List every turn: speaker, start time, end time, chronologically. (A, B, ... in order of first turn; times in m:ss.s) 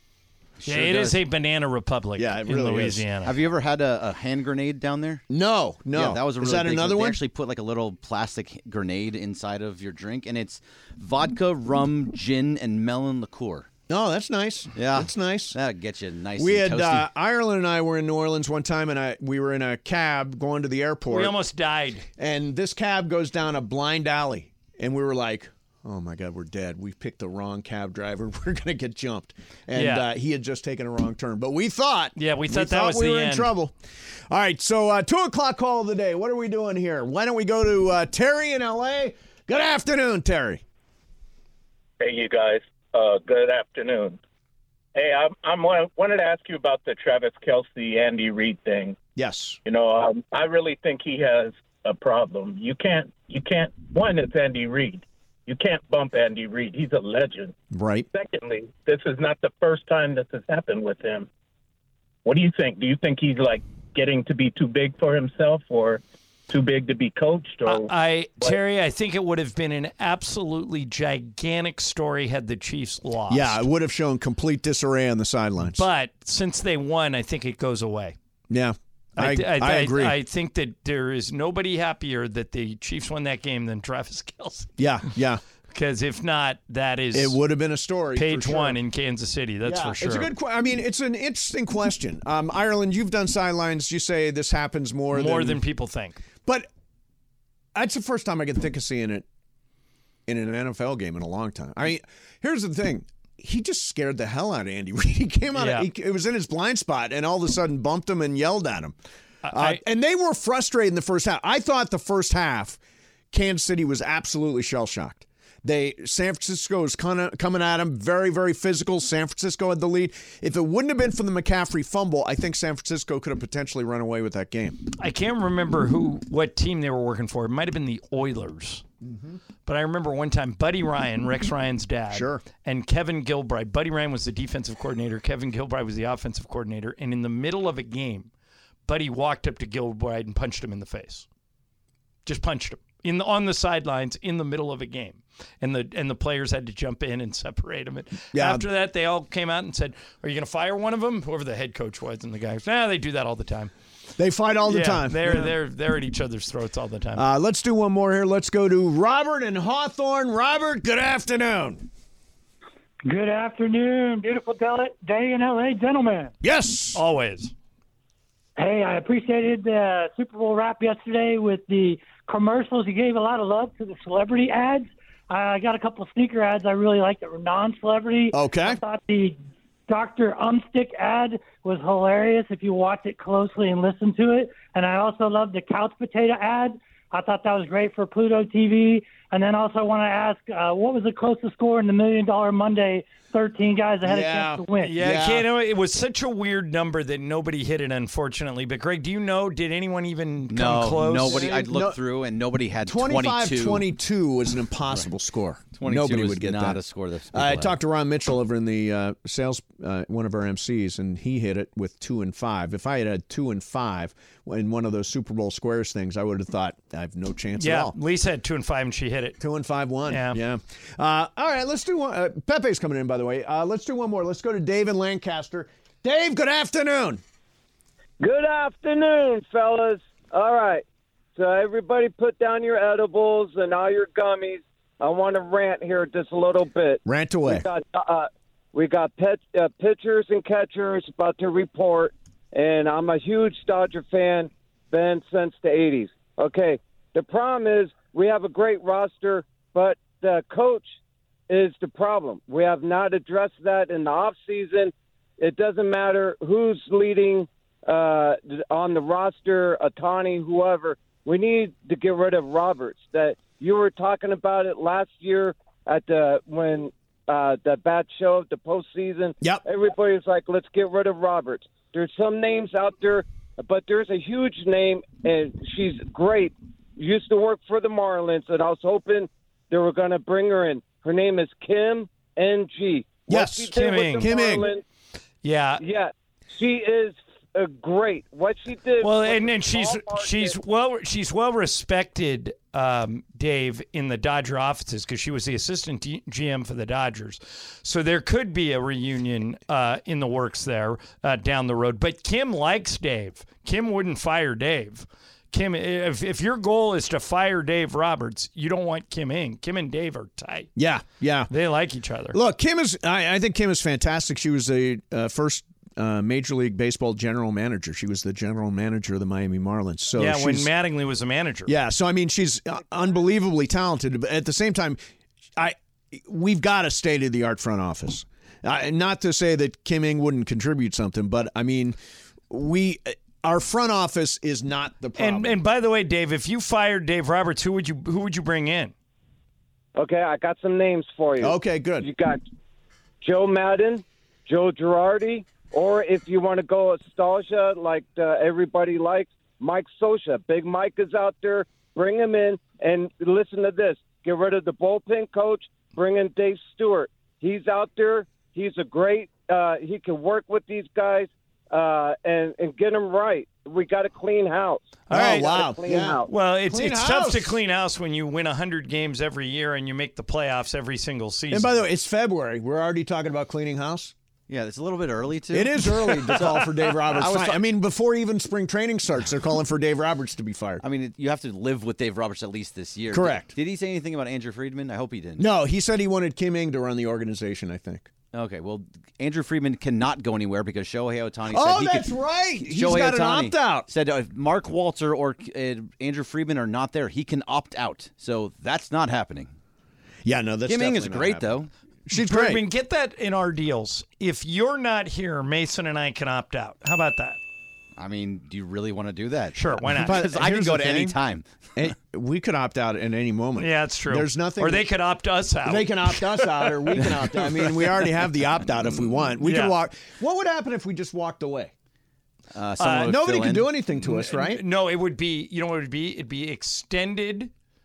0:00.6-0:01.2 A
0:00.6-0:03.3 B
0:02.2-0:03.0 A
0:03.2-0:05.2 C
0:05.3-0:07.2 A
0:05.9-0:13.7 C
0:13.9-0:15.6 A
0:14.8-0:17.1 C
0:16.4-0:21.4 A
0:21.1-0:22.0 B
0:22.2-0:33.7 A
0:29.7-0:30.0 B
0:32.2-0:33.5 B
0:34.3-0:40.6 A
0:42.0-0:44.2 D
0:45.0-0:49.0 D
0:49.2-0:49.6 A
0:49.6-0:57.6 D
0:57.7-0:58.1 A
0:58.1-1:01.3 D
1:02.2-1:08.6 D
1:07.6-1:13.7 B
1:13.3-1:15.8 A
1:15.7-1:18.2 B
1:18.5-1:20.2 A
1:19.2-1:24.8 B
1:24.8-1:25.4 A
1:25.7-1:27.4 B
1:27.1-1:28.8 A
1:28.2-1:30.3 B
1:29.6-1:35.6 A
1:35.1-1:36.2 B
1:37.8-1:39.2 A
1:40.3-1:49.0 A
1:45.5-1:45.9 B
1:49.4-1:49.8 B
1:49.5-1:52.8 A
1:53.3-2:04.8 A
2:05.0-2:08.8 B
2:09.0-2:09.4 A
2:09.7-2:18.3 B
2:12.1-2:12.4 A
2:18.9-2:21.3 B
2:22.3-2:33.7 B
2:28.3-2:28.7 A
2:34.2-2:35.6 A
2:34.6-2:37.2 B
2:37.2-2:41.9 A
2:43.1-2:46.4 E
2:46.4-2:47.0 A
2:46.9-2:47.5 B
2:48.6-3:15.0 E
2:58.3-2:58.8 A
3:14.1-3:15.5 A
3:14.8-3:21.7 B
3:20.5-3:23.9 C
3:21.3-3:22.0 A
3:22.8-3:26.8 A
3:25.8-3:27.8 C
3:27.3-3:38.0 A
3:37.6-3:39.4 B
3:39.4-3:47.2 A
3:40.1-3:40.4 B
3:48.2-3:50.8 F
3:51.4-4:10.9 F
3:57.0-3:57.7 A
4:11.5-4:44.8 F
4:43.3-4:44.7 A
4:43.7-4:44.3 B
4:45.4-4:45.8 B
4:45.8-4:50.6 F
4:49.0-5:10.7 B
5:10.8-5:11.5 A
5:11.5-5:12.4 B
5:12.3-5:20.7 A
5:20.2-5:21.7 B
5:21.7-5:25.0 A
5:25.6-5:32.0 A
5:32.5-5:35.6 A
5:35.2-5:38.9 B
5:40.0-5:42.4 F
5:41.4-5:42.1 A
5:43.2-6:06.3 F
6:05.1-6:05.5 B
6:05.1-6:07.6 A
6:06.2-6:11.7 B
6:11.5-6:14.1 A
6:14.5-6:17.6 C
6:15.5-6:20.8 A
6:20.8-6:25.5 C
6:23.1-6:23.6 A
6:25.4-6:28.1 A
6:28.3-6:39.5 C
6:31.5-6:33.9 A
6:40.2-6:42.6 A
6:40.7-6:41.7 C
6:42.1-6:47.4 B
6:48.0-6:51.4 C
6:49.6-6:50.3 B
6:49.9-6:51.2 A
6:51.8-6:54.9 A
6:53.6-6:57.1 B
6:55.6-7:01.7 A
6:59.4-6:59.8 B
7:02.5-7:03.9 C
7:02.8-7:03.2 B
7:02.8-7:04.6 A
7:04.0-7:07.5 B